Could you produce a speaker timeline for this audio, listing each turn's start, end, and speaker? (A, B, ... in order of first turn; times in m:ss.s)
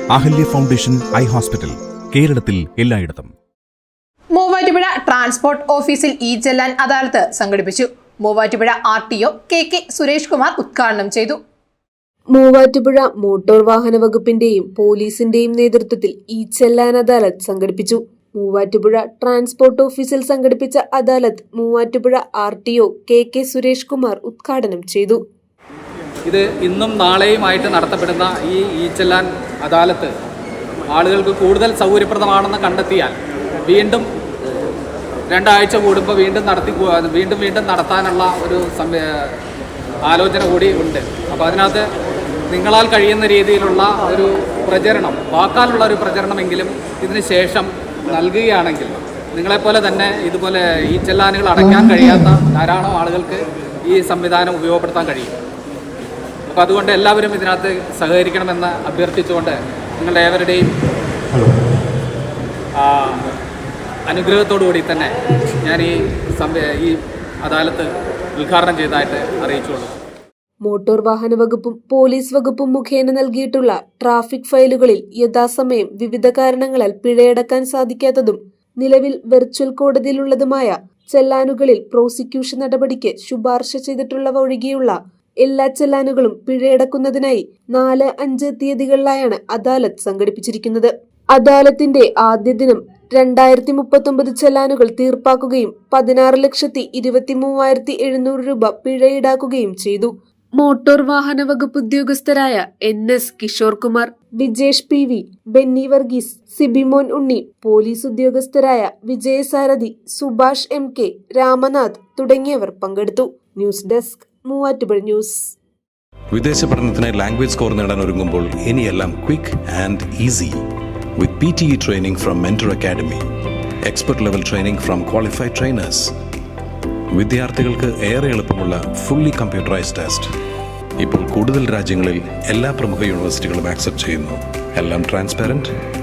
0:00.1-0:03.3 A
0:04.3-0:11.4 B
0:12.3-0:25.2 C
0:26.3-0:30.1 D
0:30.9-0:34.1 D
0:35.3-0:39.4 D
0:40.1-0:41.9 D
0:42.5-0:55.3 D
0:56.5-1:00.8 D
1:02.8-1:03.3 D
1:04.1-1:09.9 D
1:10.6-1:55.6 C
1:56.3-2:00.6 E
2:01.2-2:03.2 E
2:03.8-2:06.1 E
2:07.1-2:10.3 E
2:11.0-2:15.7 E